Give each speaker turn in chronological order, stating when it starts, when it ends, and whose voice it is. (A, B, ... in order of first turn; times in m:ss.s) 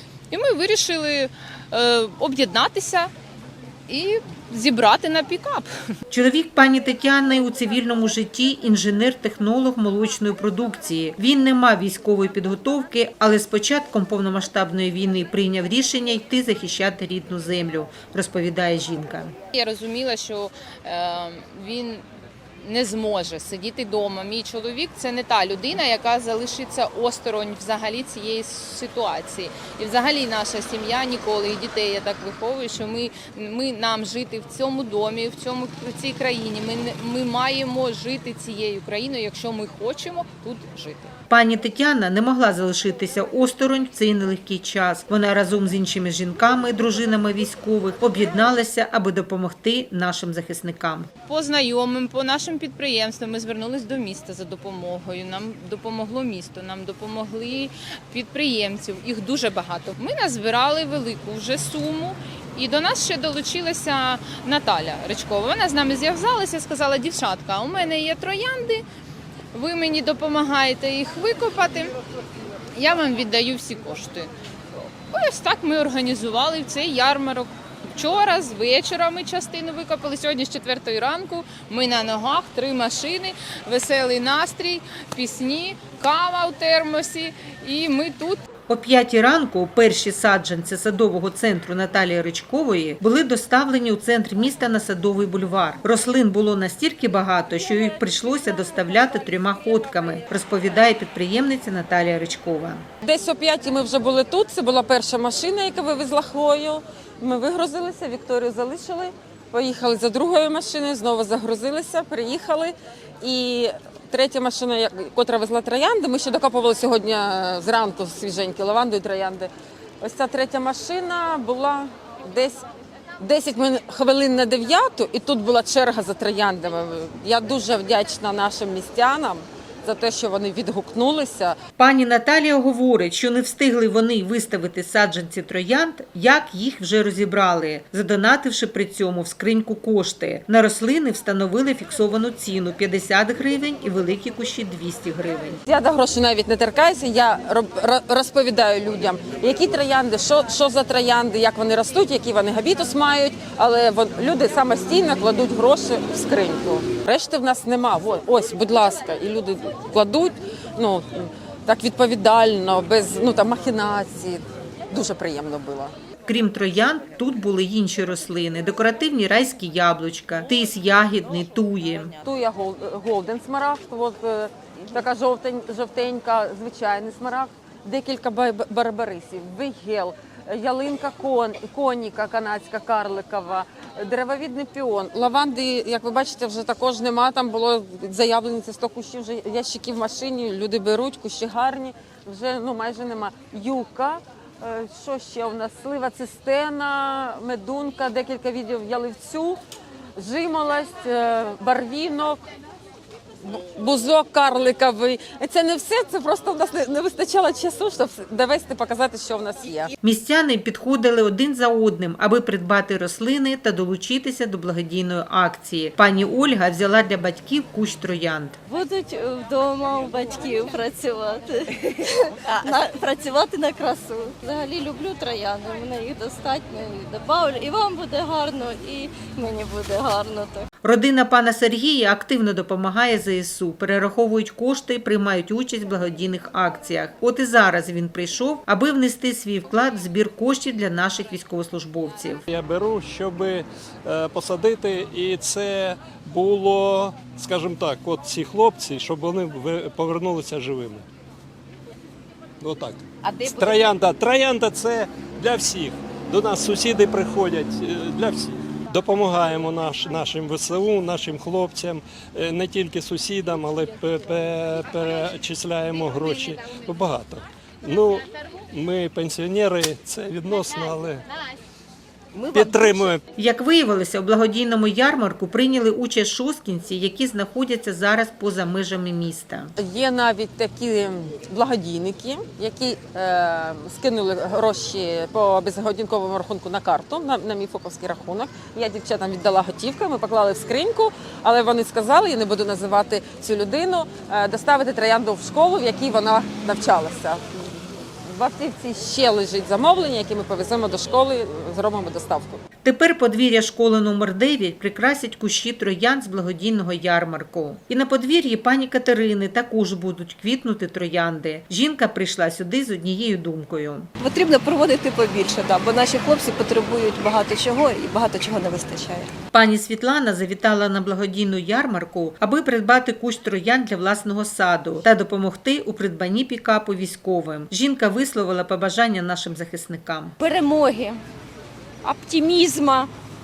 0:00.3-0:03.1 A
0:03.9-0:05.7 A
0:06.1-0:19.3 B
0:19.5-0:22.0 A
0:22.6-0:41.1 A
0:41.3-0:51.1 B
0:51.3-1:08.8 A
1:09.5-1:12.0 A
1:12.7-1:14.3 A
1:15.1-1:28.4 A
1:28.7-1:42.8 B
1:43.0-1:59.5 C
2:00.0-2:02.6 C
2:03.2-2:11.6 C
2:11.8-2:25.6 B
2:25.7-2:45.9 C
2:46.2-2:52.1 B
2:52.2-3:19.6 C
3:20.2-3:22.4 C
3:23.4-3:29.9 C
3:30.0-3:38.6 B
3:38.7-3:50.6 D
3:50.8-4:02.4 B
4:02.5-4:11.0 E
4:12.6-4:31.2 E
4:32.5-4:33.2 E
4:33.4-4:39.7 B
4:39.8-5:02.6 C
5:02.8-5:14.1 B
5:14.2-5:19.3 F
5:19.5-5:30.3 B
5:30.4-5:31.1 F
5:32.0-5:33.1 F